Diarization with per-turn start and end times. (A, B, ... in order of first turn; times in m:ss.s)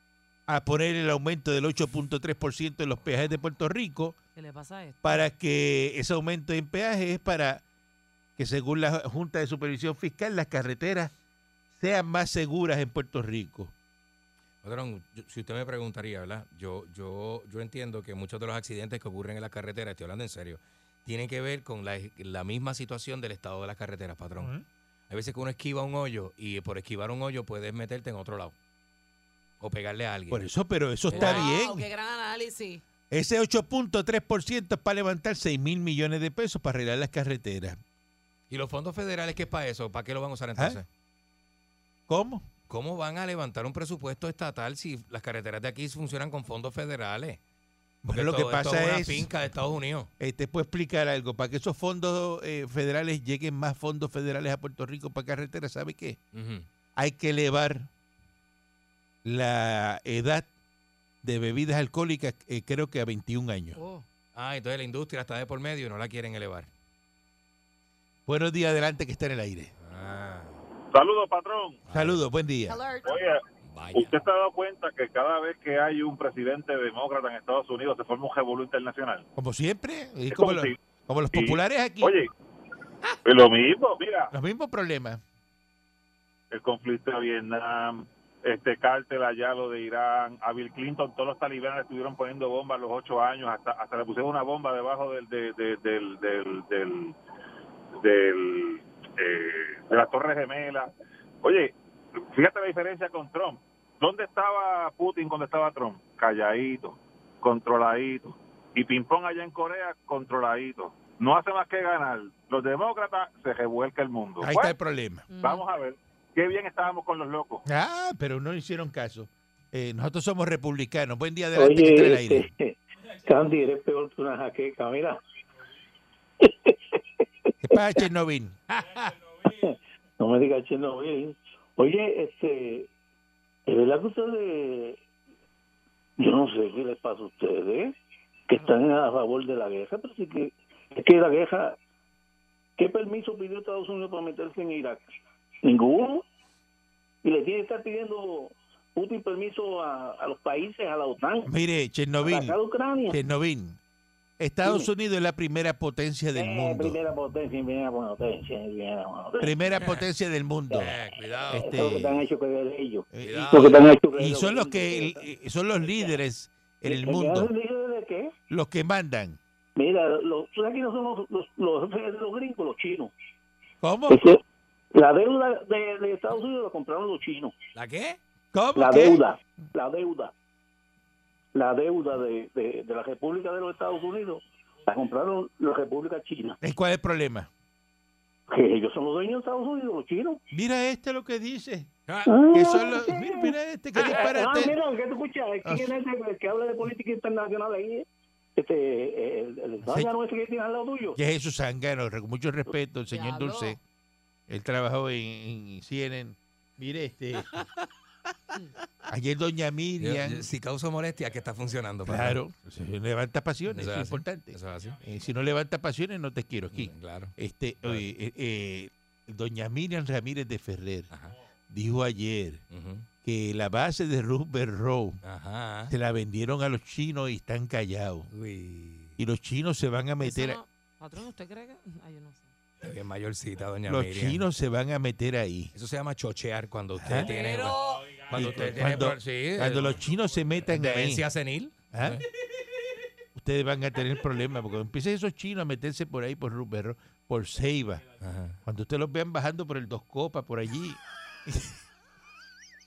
0:00.5-0:04.2 A
0:04.4-0:05.3 B
0:05.0-0:07.6 A
0:08.4-0:11.1 A
0:11.7-0:13.7 A
0:14.6-0:24.5 C
0:24.4-0:24.6 A
0:25.1-0:28.5 C
0:29.6-0:30.4 C
0:30.3-0:31.9 A
0:31.1-0:32.8 B
0:31.1-0:31.4 C
0:33.1-0:37.8 A
0:38.5-0:40.8 C
0:42.1-0:42.4 A
0:42.7-0:47.4 C
0:48.0-0:49.3 A
0:48.1-0:50.1 C
0:50.2-0:56.2 A
0:56.3-0:56.7 C
0:57.0-0:57.9 A
0:59.2-1:00.5 A
1:01.2-1:03.8 A
1:03.8-1:04.0 B
1:04.3-1:06.7 C
1:08.3-1:09.7 A
1:09.8-1:10.6 C
1:10.9-1:11.8 D
1:11.8-1:12.2 C
1:11.9-1:12.8 A
1:12.7-1:13.2 B
1:13.0-1:13.4 D
1:13.6-1:14.1 C
1:13.9-1:19.2 D
1:19.4-1:22.2 A
1:20.3-1:20.7 D
1:21.3-1:22.3 D
1:23.2-1:24.3 D
1:24.3-1:25.2 A
1:26.5-1:37.1 D
1:38.0-1:40.9 D
1:41.4-1:41.7 D
1:42.3-1:54.7 D
1:54.4-1:55.3 A
1:55.3-1:55.6 B
1:55.4-1:57.6 D
1:57.6-2:02.5 A
2:01.5-2:05.2 E
2:06.4-2:07.5 E
2:07.6-2:08.6 A
2:08.7-2:09.1 C
2:09.4-2:12.9 E
2:13.7-2:15.0 E
2:16.2-2:17.9 E
2:18.5-2:21.8 E
2:22.8-2:25.0 E
2:25.6-2:26.2 E
2:27.2-2:31.5 E
2:31.4-2:32.6 A
2:32.2-2:33.2 E
2:33.1-2:33.8 A
2:34.4-2:37.0 A
2:34.6-2:34.9 E
2:36.3-2:39.6 E
2:39.4-2:40.9 A
2:39.7-2:40.0 C
2:40.7-2:41.8 C
2:41.5-2:42.2 A
2:41.6-2:45.2 E
2:43.1-2:47.5 A
2:43.2-2:43.8 C
2:45.8-2:46.1 E
2:46.8-2:48.3 E
2:48.5-2:49.4 A
2:49.8-2:53.1 E
2:53.8-2:54.3 A
2:54.1-2:54.4 E
2:54.9-2:57.5 E
2:57.7-2:58.2 C
2:58.5-2:59.2 A
2:58.8-3:00.3 E
3:01.5-3:06.6 E
3:06.6-3:07.5 A
3:08.5-3:10.4 E
3:10.5-3:11.9 A
3:12.1-3:12.3 C
3:12.2-3:18.0 E
3:12.5-3:14.8 A
3:13.9-3:14.3 C
3:15.6-3:15.9 A
3:18.6-3:21.2 E
3:19.8-3:20.1 A
3:21.2-3:23.8 A
3:23.1-3:23.8 B
3:24.5-3:27.5 A
3:29.1-3:30.5 A
3:30.0-3:32.4 C
3:32.0-3:41.1 A
3:33.7-3:35.0 C
3:36.7-3:38.1 C
3:41.7-3:42.6 A
3:42.7-3:43.1 C
3:43.2-3:45.2 A
3:45.2-3:45.9 C
3:45.9-3:48.3 A
3:48.3-3:49.2 C
3:49.2-3:50.6 A
3:50.2-3:52.5 B
3:52.8-3:54.4 C
3:53.9-3:55.7 A
3:55.7-4:00.0 C
3:57.0-3:57.3 A
3:57.2-3:58.1 B
3:58.3-4:01.2 A
4:00.6-4:02.2 C
4:01.9-4:02.2 A
4:03.3-4:08.0 A
4:08.2-4:08.6 C
4:08.6-4:11.8 A